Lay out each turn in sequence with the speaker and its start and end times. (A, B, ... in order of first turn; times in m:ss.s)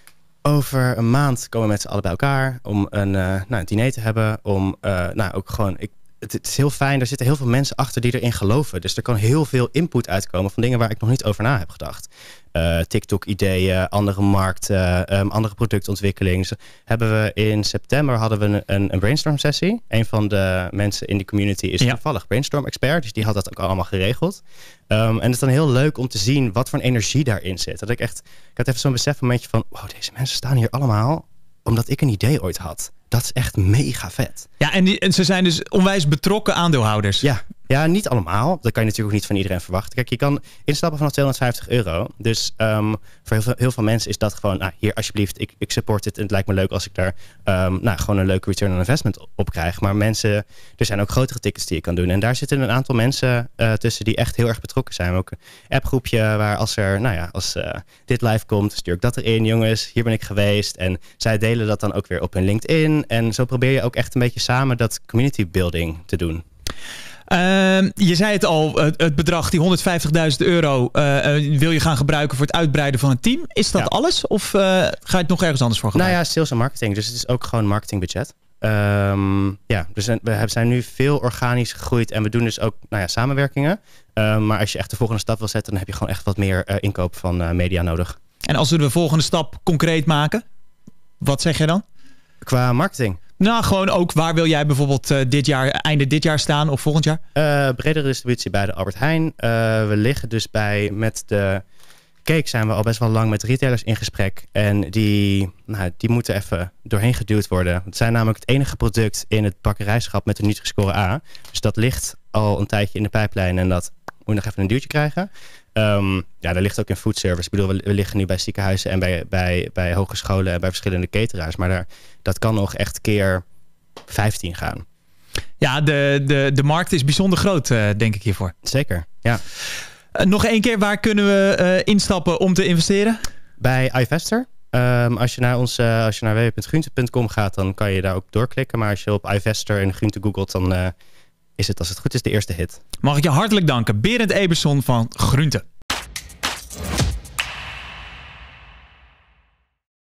0:00.4-0:34.5 A
0:34.6-0:37.2 B
0:37.2-1:06.4 A
1:07.3-1:16.2 B
1:15.9-1:28.2 A
1:28.4-1:30.4 B
1:31.2-1:31.8 B
1:32.4-1:33.2 A
1:33.4-1:37.2 B
1:37.3-1:41.6 A
1:42.2-2:03.4 A
2:04.1-2:04.8 A
2:05.6-2:08.5 B
2:08.6-2:09.4 A
2:10.2-2:13.2 B
2:13.6-2:20.9 A
2:21.6-2:22.8 A
2:23.0-2:25.6 B